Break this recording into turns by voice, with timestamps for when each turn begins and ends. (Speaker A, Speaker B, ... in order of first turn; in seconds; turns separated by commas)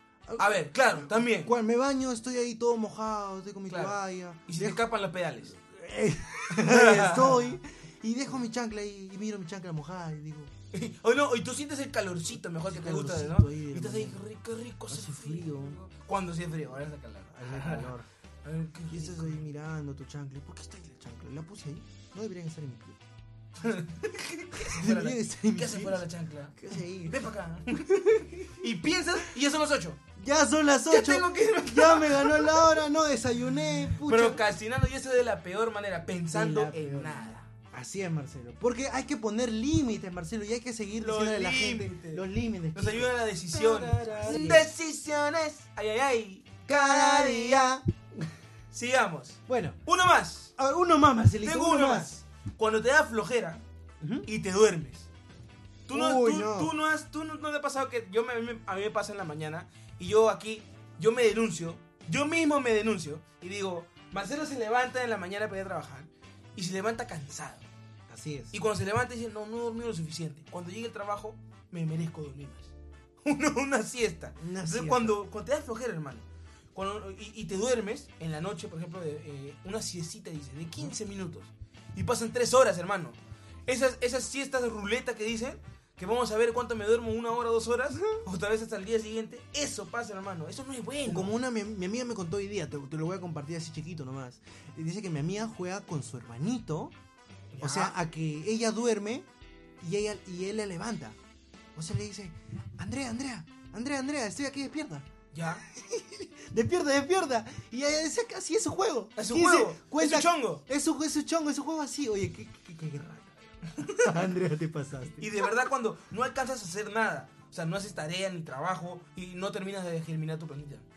Speaker A: 0.3-4.8, Speaker B: 0.4-1.5, Speaker B: 3.7-5.5, Speaker A: 5.5-10.5, Speaker B: 6.5-7.5, Speaker B: 10.7-17.9, Speaker A: 12.7-14.2, Speaker A: 14.9-15.8, Speaker A: 17.3-18.1, Speaker B: 18.4-19.4, Speaker A: 18.9-23.0, Speaker B: 23.6-30.0, Speaker A: 24.6-26.0, Speaker A: 26.6-28.5, Speaker A: 30.2-34.5, Speaker B: 30.9-32.8, Speaker B: 34.0-37.5, Speaker A: 36.3-44.7, Speaker B: 41.0-47.7, Speaker A: 46.7-48.3, Speaker B: 48.7-50.5, Speaker A: 49.5-49.8, Speaker A: 50.6-52.2, Speaker B: 51.4-53.6, Speaker A: 54.0-54.3, Speaker B: 54.2-55.1, Speaker B: 55.9-67.7, Speaker A: 55.9-56.7, Speaker A: 68.1-68.6, Speaker B: 68.5-72.7, Speaker B: 73.2-91.3, Speaker A: 74.4-75.2, Speaker A: 91.1-96.9, Speaker B: 97.5-98.0, Speaker A: 97.6-99.3, Speaker A: 99.8-101.2, Speaker A: 101.8-105.1, Speaker B: 105.3-105.6, Speaker A: 105.6-115.5, Speaker B: 109.2-110.6, Speaker B: 113.8-114.1, Speaker B: 115.2-120.9